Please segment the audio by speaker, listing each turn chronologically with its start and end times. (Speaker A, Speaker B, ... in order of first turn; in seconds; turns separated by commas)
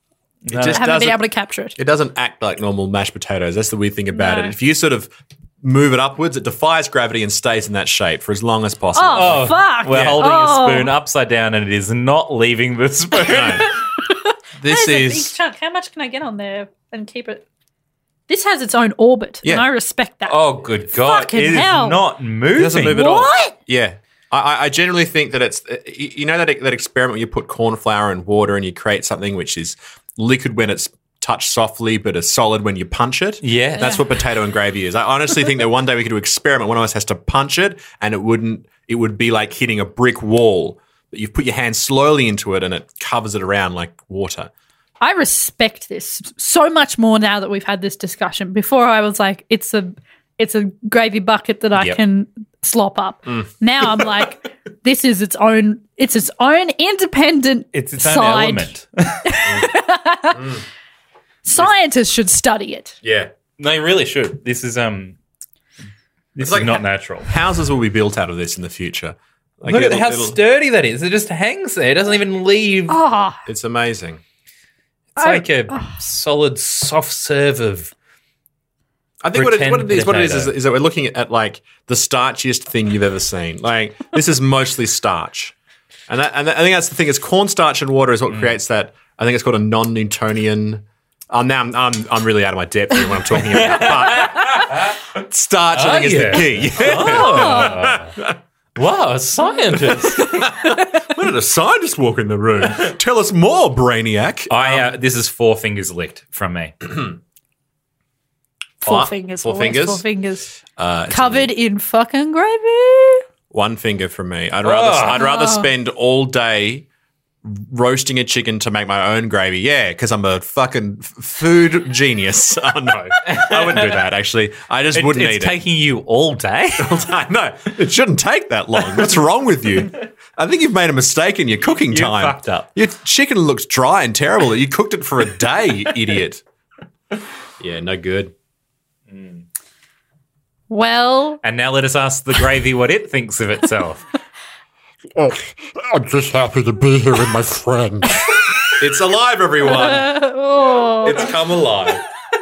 Speaker A: 0.5-0.8, Speaker B: 0.5-1.2, Speaker C: 0.7-1.8, Speaker B: 1.8-10.2, Speaker C: 4.1-4.5, Speaker C: 8.9-10.9, Speaker A: 9.2-13.7, Speaker B: 13.3-13.7, Speaker C: 13.5-17.4, Speaker B: 14.6-15.3, Speaker C: 18.3-22.0, Speaker A: 20.3-23.0, Speaker B: 22.6-44.5, Speaker C: 22.9-23.5, Speaker A: 33.4-34.0, Speaker C: 45.0-58.7, Speaker A: 57.7-59.4, Speaker C: 59.2-60.4, Speaker B: 60.3-60.6, Speaker C: 61.5-63.0, Speaker B: 63.0-63.3, Speaker A: 63.6-65.2, Speaker A: 66.3-67.3, Speaker B: 66.4-70.4, Speaker A: 69.7-73.0, Speaker C: 72.9-73.4, Speaker B: 73.5-74.2, Speaker A: 75.2-77.9, Speaker C: 75.2-75.9, Speaker B: 79.2-85.5, Speaker A: 79.3-80.5, Speaker B: 86.1-98.4, Speaker A: 93.7-95.0, Speaker A: 95.7-98.2, Speaker C: 97.1-97.7, Speaker A: 98.8-100.7, Speaker B: 99.8-104.8, Speaker A: 104.5-106.7, Speaker B: 108.8-110.0, Speaker C: 108.8-110.5, Speaker B: 110.8-111.5, Speaker C: 111.1-113.2, Speaker B: 113.5-116.9, Speaker A: 114.6-115.3, Speaker C: 115.1-115.7, Speaker B: 117.4-125.6, Speaker A: 123.3-124.0, Speaker A: 124.9-127.0, Speaker B: 126.8-136.4, Speaker A: 131.7-132.7, Speaker B: 137.6-138.3, Speaker A: 139.1-139.4, Speaker C: 140.7-141.4, Speaker A: 141.4-144.0, Speaker D: 145.2-148.2, Speaker B: 148.8-150.3, Speaker C: 149.8-151.3, Speaker B: 151.0-152.0